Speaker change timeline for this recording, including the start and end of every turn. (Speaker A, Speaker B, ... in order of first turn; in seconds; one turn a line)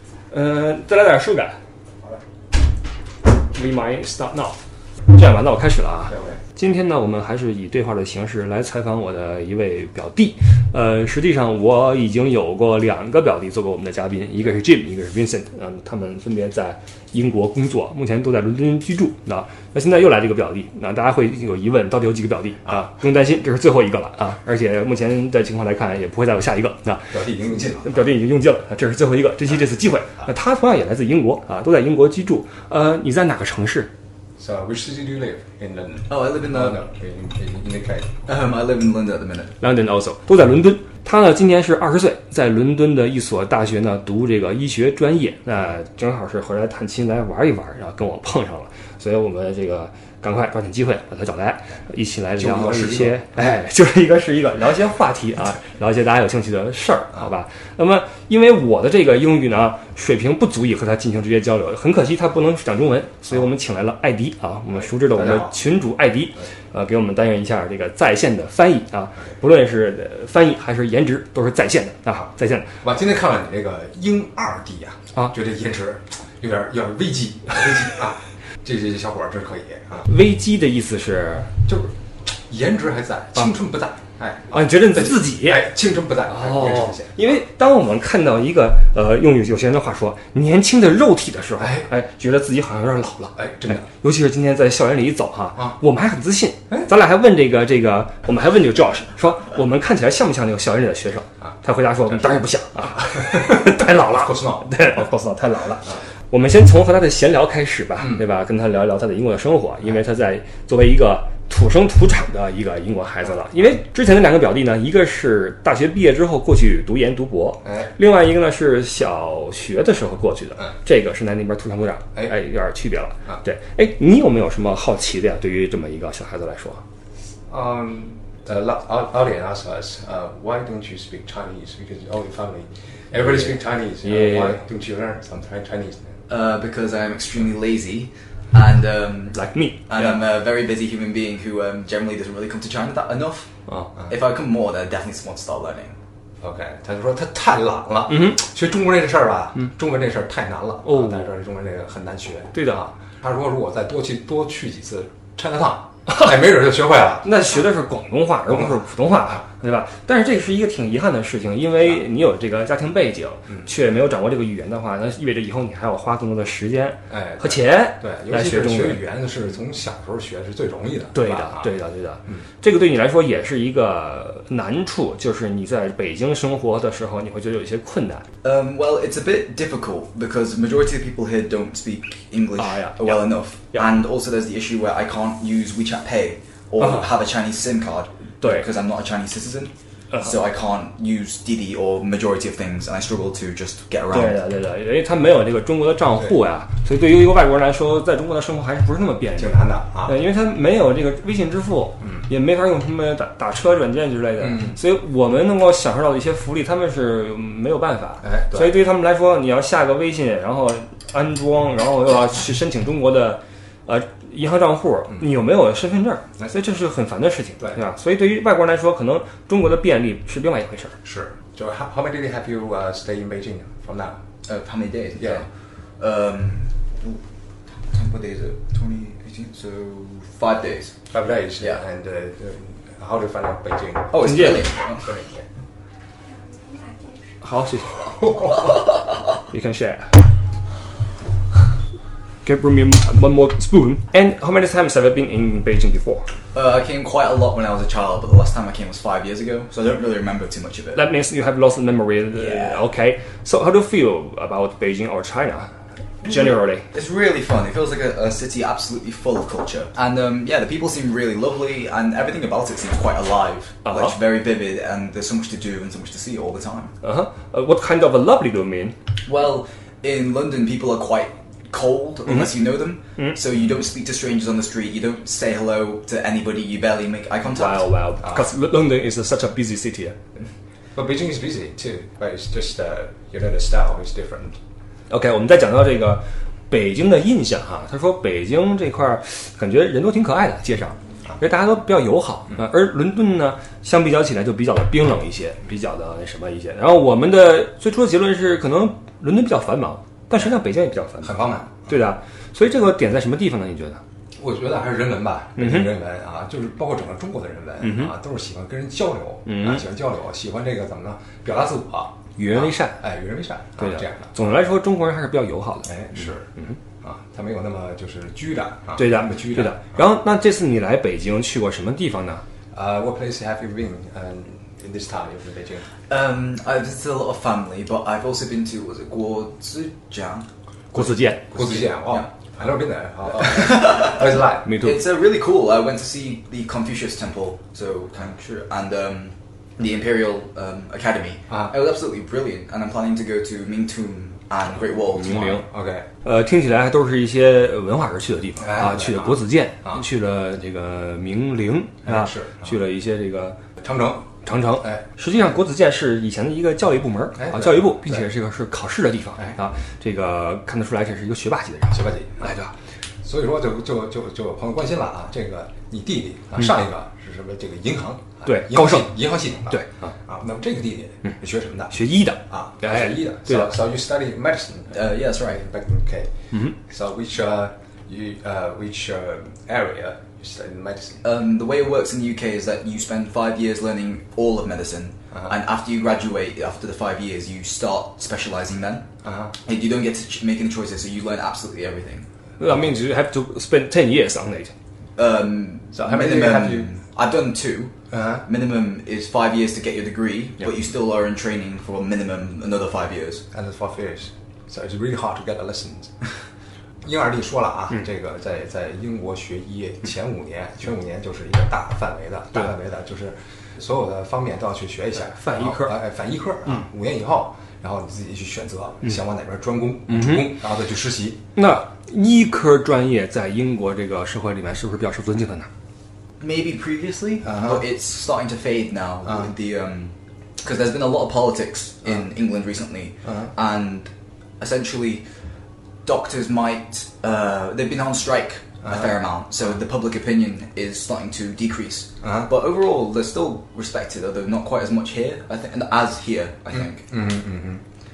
Speaker A: 0.3-1.6
Speaker A: 3.5-4.6
Speaker A: 5.1-33.9
Speaker B: 6.1-6.4
Speaker B: 27.1-28.0
Speaker B: 34.4-38.2
Speaker C: 36.1-36.8
Speaker C: 38.3-39.6
Speaker A: 39.6-72.7
Speaker B: 52.4-53.6
Speaker B: 65.1-65.5
Speaker B: 72.8-80.1
Speaker A: 80.1-81.5
Speaker B: 81.7-87.2
Speaker A: 84.5-85.7
Speaker A: 86.3-126.8
Speaker B: 91.6-91.9
Speaker B: 93.4-93.9
Speaker B: 102.9-104.7
Speaker B: 117.6-117.9
Speaker B: 127.5-136.1
Speaker A: 134.0-134.6
Speaker C: 136.3-146.0
Speaker A: 139.3-140.2
Speaker B: 146.4-157.5
Speaker A: 148.1-148.4
Speaker A: 150.8-151.3
Speaker A: 152.6-152.8
Speaker A: 157.2-169.0
Speaker B: 158.5-159.4
Speaker B: 167.1-171.7
Speaker A: 171.1-178.3
Speaker C: 178.4-194.4
Speaker A: 182.6-183.2
Speaker A: 186.8-187.1
Speaker A: 194.1-221.0
Speaker B: 199.4-200.2
Speaker B: 204.4-204.8
Speaker B: 208.2-208.8
Speaker B: 221.0-224.2
Speaker C: 224.5-225.5
Speaker B: 225.2-225.4
Speaker C: 226.0-227.2
Speaker C: 227.9-230.9
Speaker B: 231.1-234.3
Speaker C: 234.1-235.1
Speaker A: 234.2-234.7
Speaker B: 235.0-235.4
Speaker A: 237.4-240.2
Speaker A: 242.4-246.3
Speaker C: 246.5-251.0
Speaker A: 250.9-255.7
Speaker C: 252.4-252.8
Speaker A: 256.2-256.9
Speaker C: 256.2-266.9
Speaker A: 263.9-264.1
Speaker A: 267.0-269.0
Speaker C: 269.3-277.9
Speaker A: 277.5-280.2
Speaker B: 280.9-284.6
Speaker A: 285.1-304.0
Speaker B: 301.2-301.9
Speaker B: 304.4-314.5
Speaker A: 305.6-305.9
Speaker A: 307.8-308.1
Speaker A: 309.5-309.9
Speaker A: 312.4-313.0
Speaker A: 313.8-316.8
Speaker B: 315.9-316.5
Speaker B: 317.0-320.0
Speaker A: 319.0-322.4
Speaker B: 322.7-325.9
Speaker C: 326.1-330.5
Speaker A: 330.9-331.5
Speaker C: 331.5-332.3
Speaker B: 331.5-334.7
Speaker C: 333.3-345.6
Speaker A: 334.6-335.0
Speaker A: 345.1-345.6
Speaker B: 345.6-346.1
Speaker A: 346.2-353.6
Speaker B: 348.6-350.0
Speaker B: 352.1-352.8
Speaker B: 353.8-355.0
Speaker A: 354.4-362.7
Speaker B: 357.4-358.3
Speaker B: 361.9-362.5
Speaker B: 363.2-372.0
Speaker A: 368.4-370.1
Speaker A: 371.9-373.7
Speaker B: 372.5-381.2
Speaker C: 374.9-375.6
Speaker C: 381.2-389.1
Speaker B: 389.2-389.5
Speaker C: 389.6-392.3
Speaker A: 392.6-394.7
Speaker C: 395.2-403.4
Speaker B: 395.9-396.9
Speaker B: 398.1-398.4
Speaker B: 403.5-406.1
Speaker B: 407.0-421.4
Speaker A: 415.3-415.9
Speaker A: 420.1-420.6
Speaker A: 421.6-425.7
Speaker C: 426.4-435.3
Speaker B: 427.4-427.8
Speaker C: 436.1-447.1
Speaker B: 438.9-439.1
Speaker B: 442.2-442.5
Speaker B: 446.7-447.8